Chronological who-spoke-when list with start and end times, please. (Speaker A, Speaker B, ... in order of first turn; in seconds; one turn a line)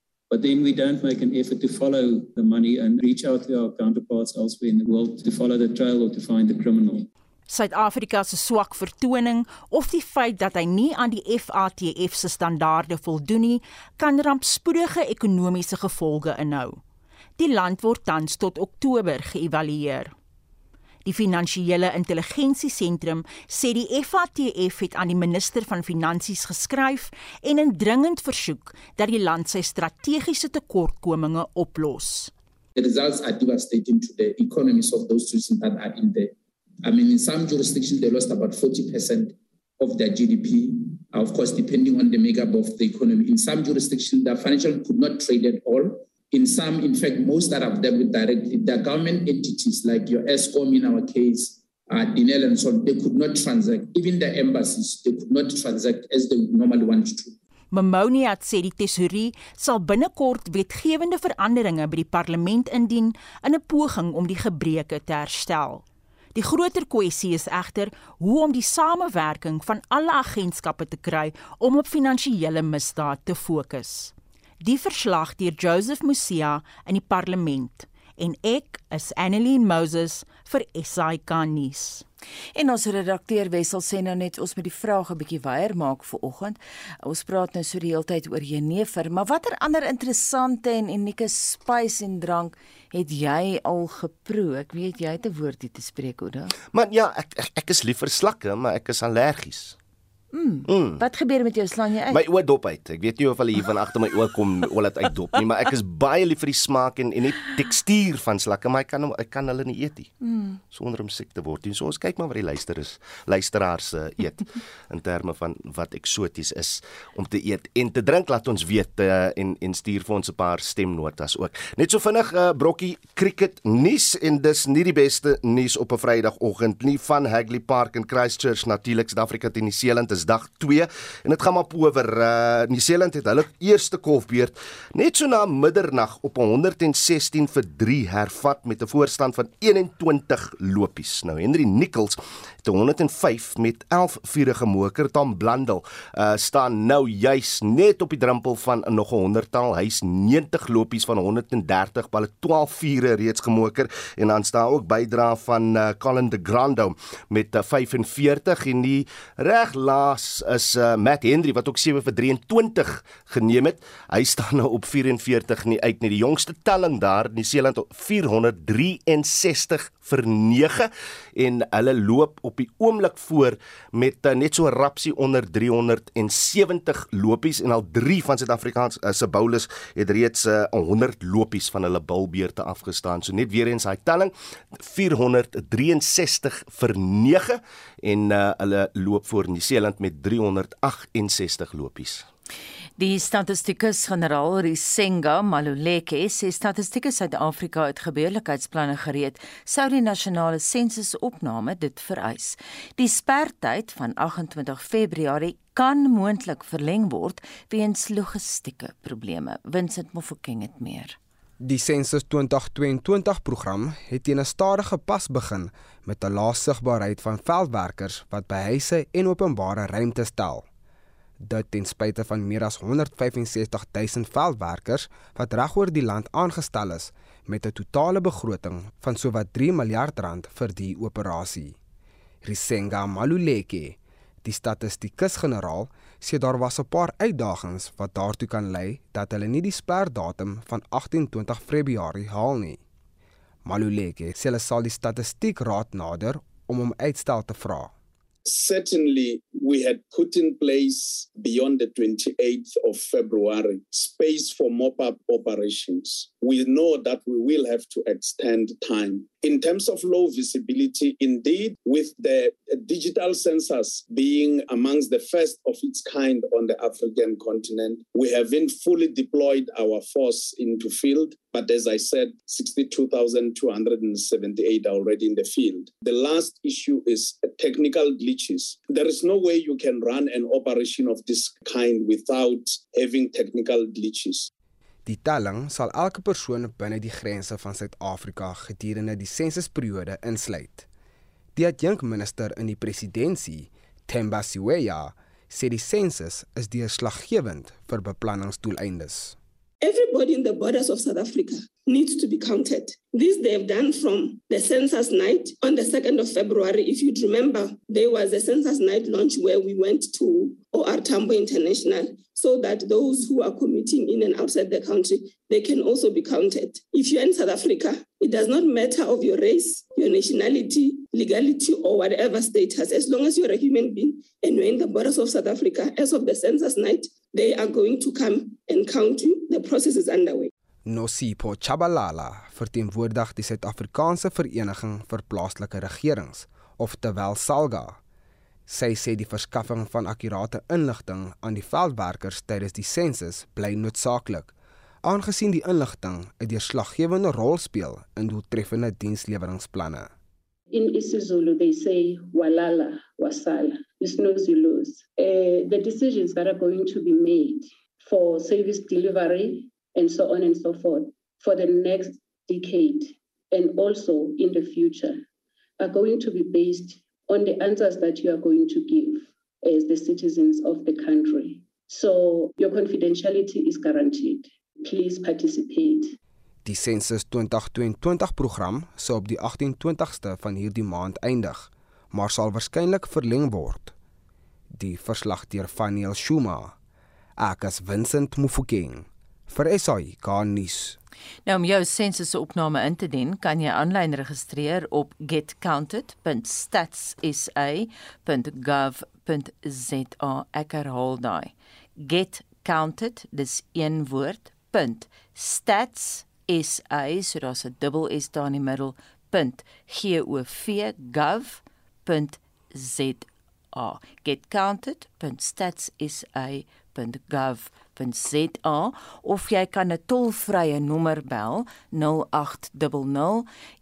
Speaker A: 0.3-7.1
Speaker B: 7.5-16.8
Speaker B: 17.4-20.1
Speaker B: 21.1-32.3
Speaker C: 32.8-36.3
Speaker C: 36.9-57.3
Speaker B: 57.7-65.8
Speaker B: 66.3-82.0
Speaker D: 82.5-96.5
Speaker E: 96.7-99.8
Speaker D: 100.3-102.2
Speaker E: 100.7-101.0
Speaker E: 102.1-110.1
Speaker E: 110.7-192.3
Speaker D: 193.0-211.2
Speaker F: 211.6-220.7
Speaker F: 221.4-231.8
Speaker F: 232.4-242.8
Speaker F: 243.7-247.9
Speaker G: 248.5-284.5
Speaker F: 285.1-290.9
Speaker F: 291.6-299.4
Speaker H: 299.8-330.5
Speaker F: 330.9-338.0
Speaker F: 338.7-344.5
Speaker F: 345.0-350.1
Speaker I: 350.7-365.2
Speaker I: 365.8-376.2
Speaker F: 376.6-383.9
Speaker F: 384.7-386.8
Speaker F: 387.4-391.0
Speaker D: 391.5-423.5